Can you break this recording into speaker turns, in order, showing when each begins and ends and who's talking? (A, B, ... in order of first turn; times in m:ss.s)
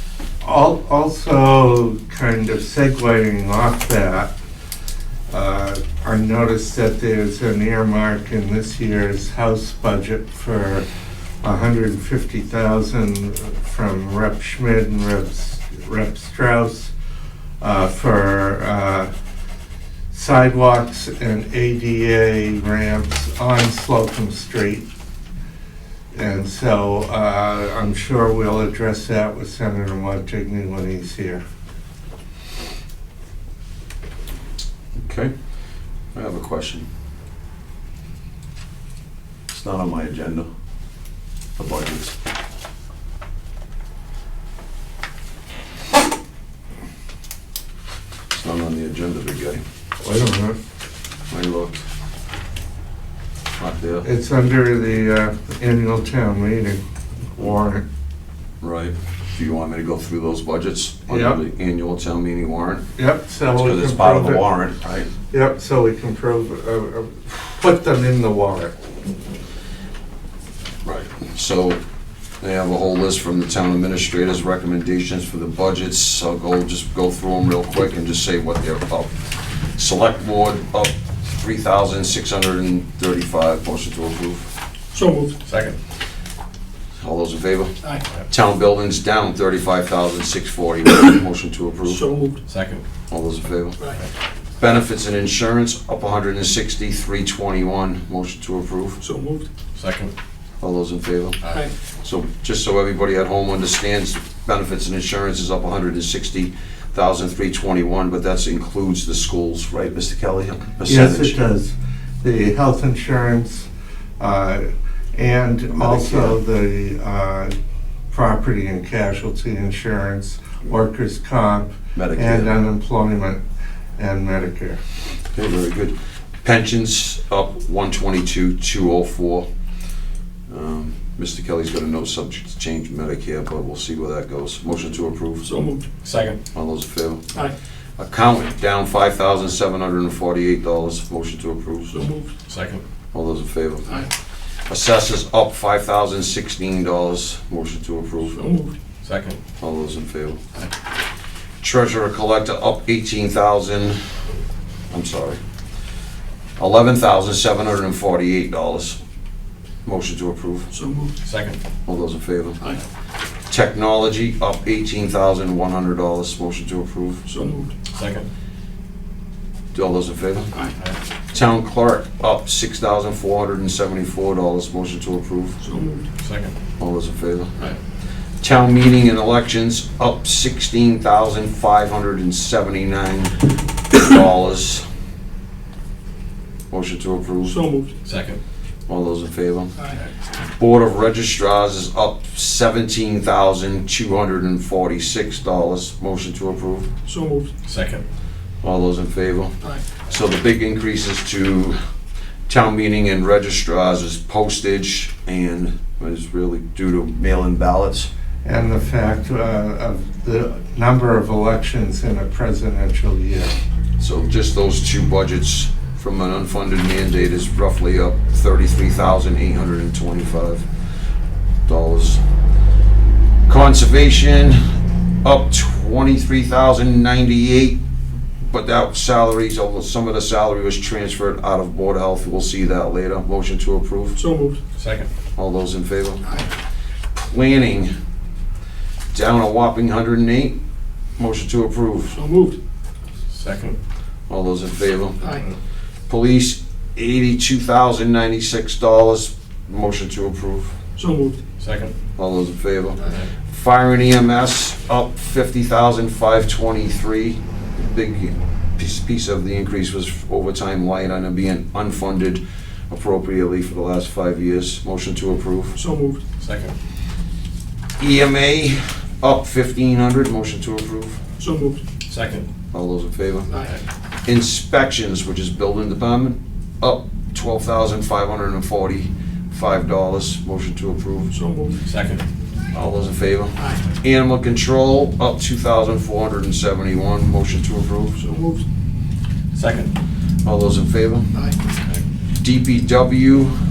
0:00.4-0:04.3 A
0:05.3-0:10.8 A
0:11.4-0:16.9 A
0:17.6-0:19.1 A
0:20.1-0:24.9 A
0:26.1-0:31.4 A
0:35.0-0:35.3 B
0:36.1-0:36.9 B
0:39.5-0:40.5 B
0:41.6-0:42.1 B
0:48.3-0:49.6 B
0:50.0-0:50.6 A
0:51.3-0:51.8 B
0:53.6-0:54.1 B
0:54.0-0:56.8 A
0:57.3-0:57.8 A
0:58.6-1:02.8 B
1:01.1-1:01.4 A
1:03.0-1:04.4 A
1:03.6-1:05.1 B
1:05.3-1:08.8 A
1:10.8-1:11.8 B
1:12.4-1:24.4 B
1:24.9-1:25.4 C
1:25.4-1:25.8 D
1:27.0-1:27.7 B
1:28.3-1:32.0 B
1:31.9-1:32.4 C
1:32.5-1:32.8 D
1:33.1-1:33.8 B
1:34.6-1:39.0 B
1:39.0-1:39.5 C
1:39.8-1:40.1 D
1:40.6-1:41.4 B
1:42.0-1:51.4 B
1:50.8-1:53.7 A
1:54.2-1:57.5 A
1:55.7-1:56.4 B
1:58.1-2:03.4 A
2:02.0-2:02.6 B
2:04.0-2:04.8 A
2:05.3-2:09.5 B
2:10.5-2:15.5 B
2:15.4-2:15.9 C
2:16.0-2:16.4 D
2:16.5-2:17.2 B
2:18.0-2:22.0 B
2:21.9-2:22.3 C
2:22.5-2:22.8 D
2:23.1-2:24.0 B
2:24.7-2:28.4 B
2:28.3-2:28.8 C
2:29.0-2:29.4 D
2:29.6-2:30.4 B
2:31.6-2:34.0 B
2:34.9-2:35.4 B
2:36.6-2:39.0 B
2:39.8-2:40.7 B
2:40.7-2:41.2 C
2:41.2-2:41.6 D
2:41.8-2:42.6 B
2:43.5-2:47.2 B
2:47.3-2:47.8 C
2:47.9-2:48.3 D
2:49.7-2:50.5 B
2:51.3-2:55.6 B
2:55.6-2:56.1 C
2:56.2-2:56.5 D
2:56.8-2:57.6 B
2:58.4-3:03.4 B
3:03.9-3:04.8 B
3:06.7-3:07.6 B
3:07.4-3:07.9 C
3:08.0-3:08.4 D
3:08.9-3:09.7 B
3:10.6-3:16.9 B
3:17.1-3:17.5 C
3:17.6-3:18.0 D
3:18.6-3:19.5 B
3:20.1-3:21.8 B
3:22.5-3:28.1 B
3:28.4-3:33.5 A
3:34.0-3:40.6 B
3:41.7-3:42.2 B
3:43.5-3:44.6 B
3:45.2-3:47.8 B
3:48.4-3:54.2 B
3:54.2-3:54.6 C
3:54.7-3:55.1 D
3:55.4-3:56.2 B
3:57.2-3:57.9 B
3:59.1-4:00.6 B
4:01.2-4:02.2 B
4:02.1-4:02.6 C
4:03.3-4:03.8 D
4:04.3-4:05.2 B
4:06.1-4:10.8 B
4:11.0-4:11.4 C
4:11.6-4:11.9 D
4:12.2-4:25.8 B
4:25.8-4:26.2 C
4:26.4-4:26.8 D
4:28.0-4:31.2 B
4:31.4-4:31.8 C
4:32.1-4:32.5 D
4:32.7-4:33.5 B
4:33.5-4:33.8 C
4:34.2-4:41.3 B
4:41.3-4:41.8 C
4:41.8-4:42.2 D
4:42.7-4:48.2 B
4:48.2-4:48.6 C
4:49.5-4:49.9 D
4:50.4-4:51.3 B
4:52.4-4:53.5 B